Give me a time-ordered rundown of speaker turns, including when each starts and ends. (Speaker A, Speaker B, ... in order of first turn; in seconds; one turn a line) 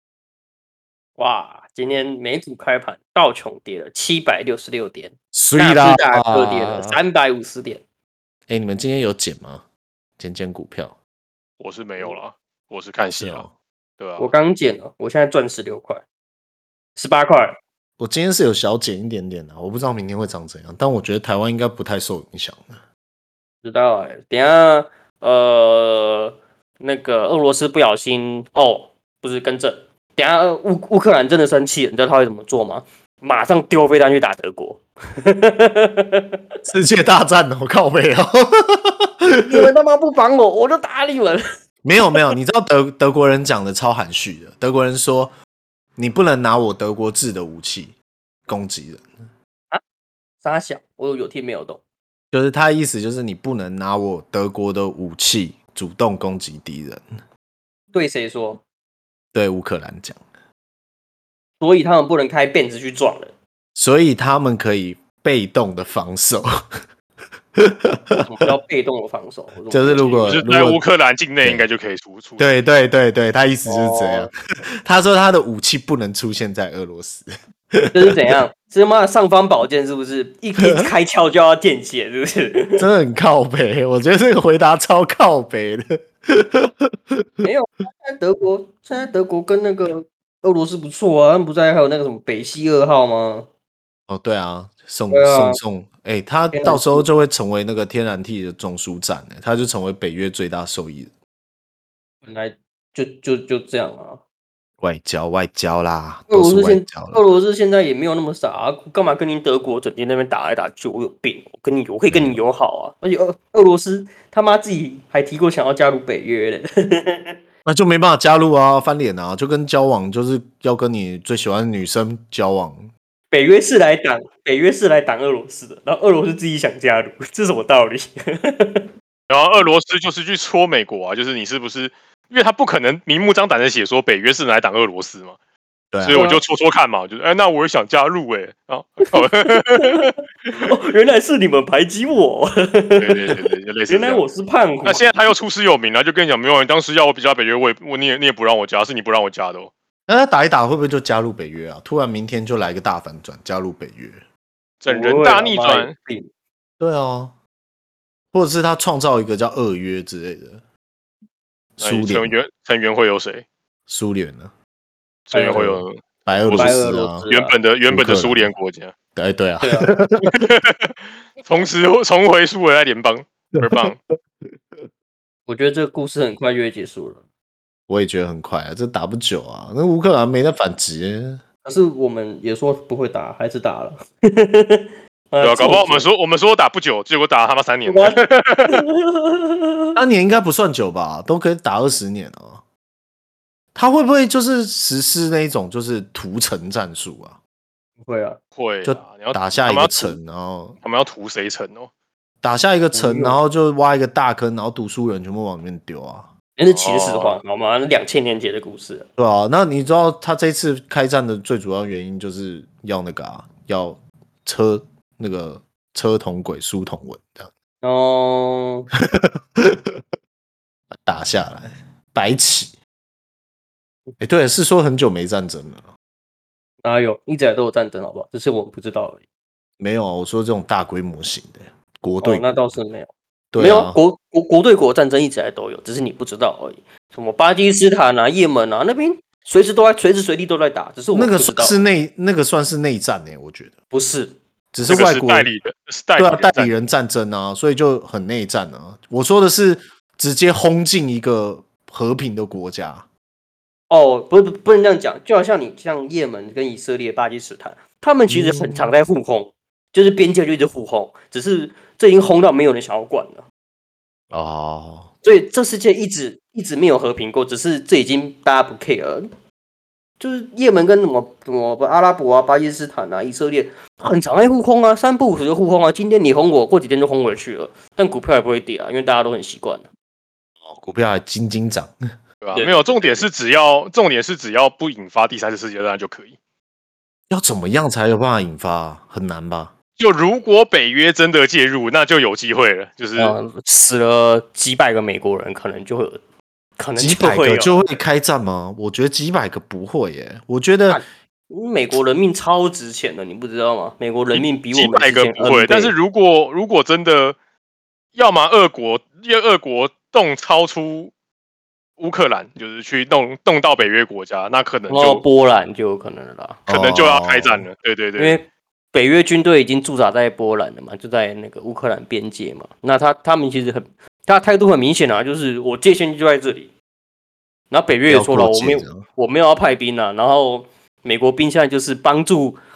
Speaker A: 1.2-7.8
Speaker B: 5.3-7.0
Speaker B: 8.5-9.6
Speaker B: 10.2-11.0
Speaker C: 11.6-13.4
Speaker B: 13.2-13.5
Speaker C: 14.0-14.3
Speaker A: 14.2-16.0
Speaker A: 16.9-17.6
Speaker B: 18.0-22.8
Speaker A: 23.6-36.4
Speaker B: 36.7-39.7
Speaker A: 39.5-41.4
Speaker B: 41.8-45.3
Speaker B: 46.0-48.0
Speaker B: 48.5-49.1
Speaker A: 50.4-51.8
Speaker B: 52.3-57.0
Speaker A: 57.9-58.6
Speaker B: 59.3-60.2
Speaker A: 61.6-63.3
Speaker B: 63.8-66.5
Speaker B: 67.5-68.3
Speaker A: 68.2-70.4
Speaker B: 69.7-70.8
Speaker C: 70.2-72.6
Speaker B: 72.4-74.3
Speaker A: 73.6-74.3
Speaker B: 74.8-78.3
Speaker A: 77.9-82.8
Speaker B: 80.6-80.9
Speaker B: 82.8-87.5
Speaker A: 87.4-93.5
Speaker B: 94.1-101.1
Speaker A: 95.1-95.6
Speaker A: 96.5-97.1
Speaker A: 102.2-104.2
Speaker B: 104.8-107.2
Speaker A: 106.3-117.4
Speaker B: 112.1-112.4
Speaker B: 117.6-122.9
Speaker A: 123.3-128.9
Speaker C: 129.3-135.3
Speaker B: 135.9-136.2
Speaker C: 136.0-140.6
Speaker A: 136.1-136.4
Speaker A: 139.2-143.3
Speaker C: 143.0-144.2
Speaker A: 143.9-145.1
Speaker C: 144.8-149.7
Speaker B: 150.1-154.2
Speaker C: 154.8-155.9
Speaker A: 154.9-156.3
Speaker B: 156.8-157.3
Speaker B: 158.3-160.6
Speaker B: 161.8-162.3
Speaker C: 161.8-163.4
Speaker B: 163.9-164.5
Speaker C: 165.3-168.9
Speaker A: 165.3-165.8
Speaker B: 166.2-167.3
Speaker A: 166.5-167.5
Speaker B: 167.9-168.5
Speaker B: 169.2-170.3
Speaker A: 169.6-169.9
Speaker C: 170.3-174.0
Speaker B: 173.6-173.9
Speaker B: 174.4-174.8
Speaker A: 175.5-177.2
Speaker B: 177.9-181.4
Speaker A: 181.6-186.1
Speaker C: 185.4-188.8
Speaker A: 187.8-190.0
Speaker B: 189.9-192.6
Speaker B: 193.7-197.4
Speaker A: 198.0-198.4
Speaker C: 198.6-200.2
Speaker B: 198.8-200.8
Speaker C: 200.8-201.9
Speaker B: 202.4-206.3
Speaker A: 202.9-203.4
Speaker A: 206.6-209.1
Speaker C: 206.7-207.4
Speaker B: 209.2-217.5
Speaker A: 217.8-218.9
Speaker B: 219.0-220.0
Speaker B: 220.9-222.8
Speaker B: 224.2-225.9
Speaker A: 226.8-229.2
Speaker B: 229.8-232.4
Speaker A: 232.2-241.8
Speaker B: 233.5-234.0
Speaker B: 241.1-243.7
Speaker A: 243.9-244.4
Speaker B: 244.7-245.5
Speaker C: 244.9-246.7
Speaker B: 246.2-253.1
Speaker A: 253.9-263.4
Speaker B: 258.3-258.9
Speaker B: 264.3-265.1
Speaker A: 265.2-269.3
Speaker A: 270.2-279.9
Speaker B: 280.6-281.9
Speaker C: 282.4-286.4
Speaker A: 282.5-283.3
Speaker B: 287.3-289.7
Speaker C: 290.0-293.4
Speaker A: 293.2-296.2
Speaker A: 296.8-297.8
Speaker B: 297.0-301.0
Speaker A: 300.9-305.9
Speaker C: 304.3-307.4
Speaker C: 308.1-311.1
Speaker C: 312.0-315.2
Speaker A: 314.9-316.7
Speaker B: 316.7-317.7
Speaker C: 316.7-318.4
Speaker A: 318.2-326.7
Speaker A: 327.7-332.6
Speaker B: 328.1-329.0